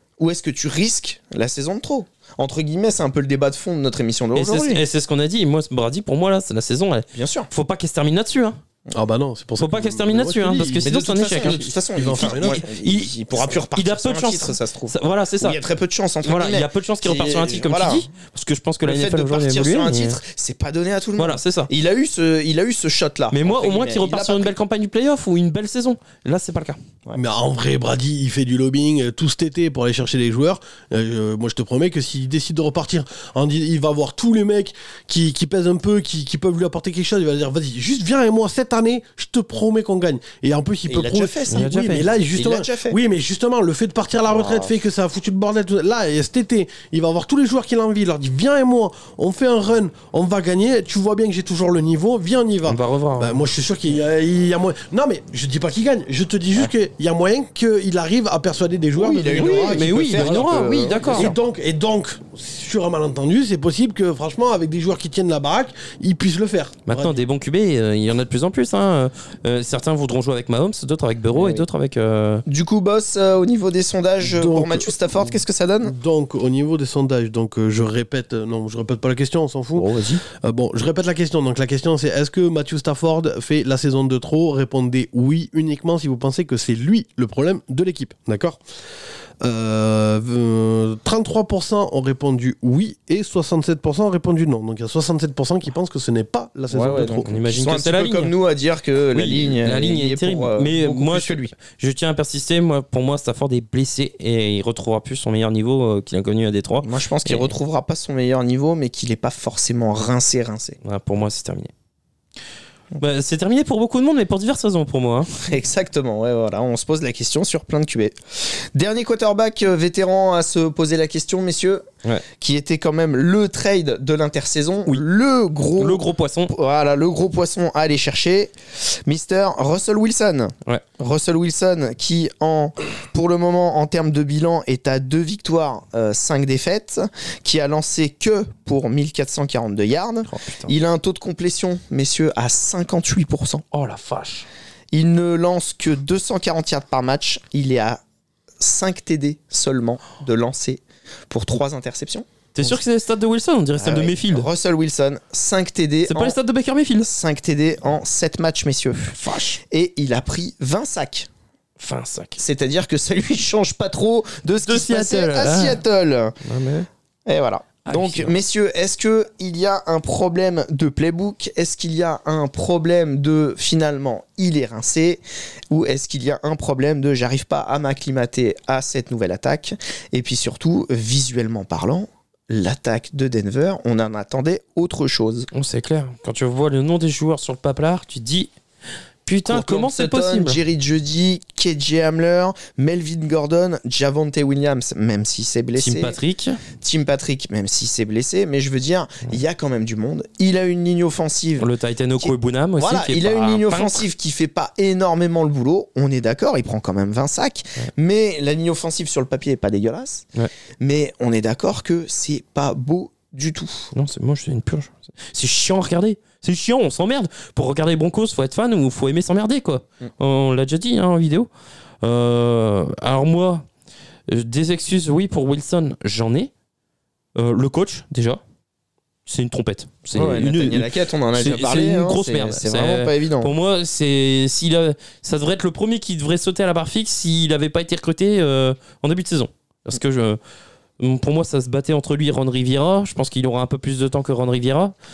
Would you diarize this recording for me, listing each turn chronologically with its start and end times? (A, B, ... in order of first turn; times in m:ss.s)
0:00.2-0:04.8 A
0:04.3-0:08.6 B
0:07.1-0:07.5 A
0:08.9-0:12.6 C
0:09.6-0:11.6 B
0:10.8-0:18.1 A
0:12.1-0:15.6 B
0:16.2-0:20.2 B
0:18.8-0:24.5 A
0:21.2-0:21.7 B
0:23.3-0:26.8 B
0:27.1-1:07.2 C
0:40.9-0:43.0 A
0:41.5-0:42.0 B
0:44.3-0:44.7 A
0:52.6-0:53.4 B
0:59.0-1:01.3 A
0:59.4-1:01.3 B
1:06.9-1:12.4 B
1:11.4-1:11.6 A
1:12.5-1:15.9 A
1:14.2-1:28.6 C
1:19.8-1:20.2 B
1:29.4-1:37.3 C
1:36.7-1:41.5 A
1:37.2-1:38.3 B
1:39.1-1:47.5 B
1:46.8-1:50.8 A
1:50.8-1:51.7 B
1:53.0-1:55.3 B
1:55.4-2:01.8 A
2:02.4-2:23.6 A
2:05.8-2:06.5 B
2:20.2-2:20.7 B
2:23.7-2:24.5 B
2:24.9-2:28.0 A
2:28.6-2:32.8 A
2:32.6-2:34.5 B
2:33.8-2:36.4 A
2:36.1-2:37.1 B
2:37.0-2:41.3 A
2:39.1-2:39.6 B
2:41.8-2:42.4 B
2:42.4-2:46.4 A
2:44.6-2:45.8 B
2:46.4-2:46.9 B
2:47.2-3:05.5 A
2:47.9-2:48.3 B
3:05.5-3:08.5 B
3:09.2-3:10.6 B
3:09.4-3:16.1 A
3:15.8-3:16.6 B
3:16.8-3:21.7 A
3:21.6-3:24.0 B
3:22.2-3:30.2 A
3:30.8-3:33.9 A
3:33.9-3:41.5 B
3:42.0-3:43.6 B
3:44.3-3:46.5 B
3:47.4-3:48.4 B
3:49.2-4:00.4 B
3:50.1-3:53.5 A
4:01.0-4:04.9 B